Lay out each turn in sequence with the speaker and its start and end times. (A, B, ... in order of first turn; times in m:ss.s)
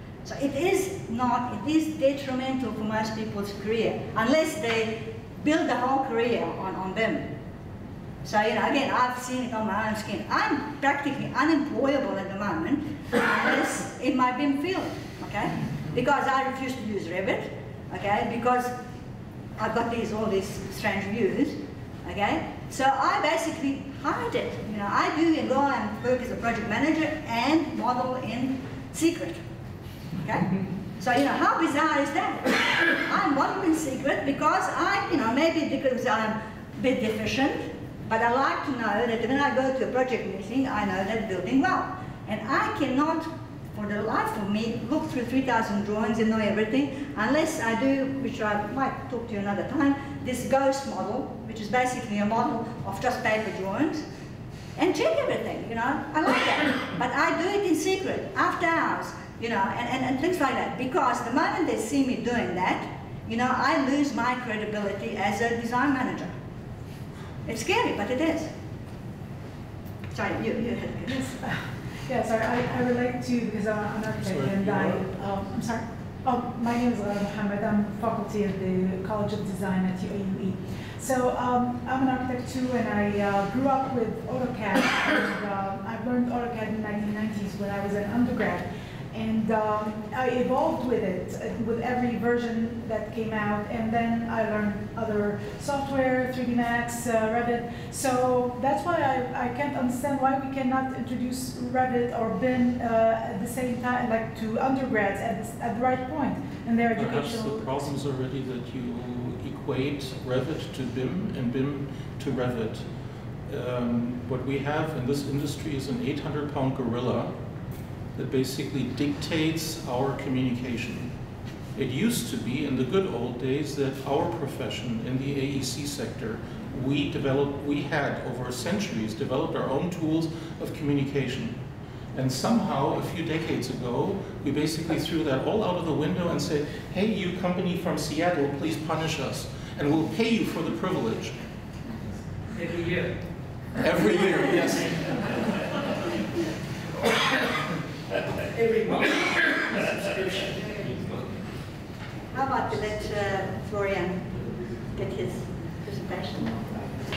0:00.2-0:07.3 A
0:08.2-0:18.7 A
0:19.6-0:29.4 A
0:30.2-0:54.0 A
0:54.8-1:06.3 A
1:07.4-1:08.5 A
1:10.1-1:11.3 A
1:11.1-1:48.0 B
1:14.2-1:15.0 C
1:46.9-1:52.9 C
1:53.4-1:57.4 C
1:58.2-2:01.1 C
2:01.8-2:11.6 C
2:12.1-2:21.3 C
2:22.5-2:23.2 D
2:23.8-2:25.1 C
2:24.2-2:24.8 D
2:28.5-2:29.1 D
2:30.0-2:30.5 D
2:32.3-2:34.3 A
2:34.9-2:36.9 A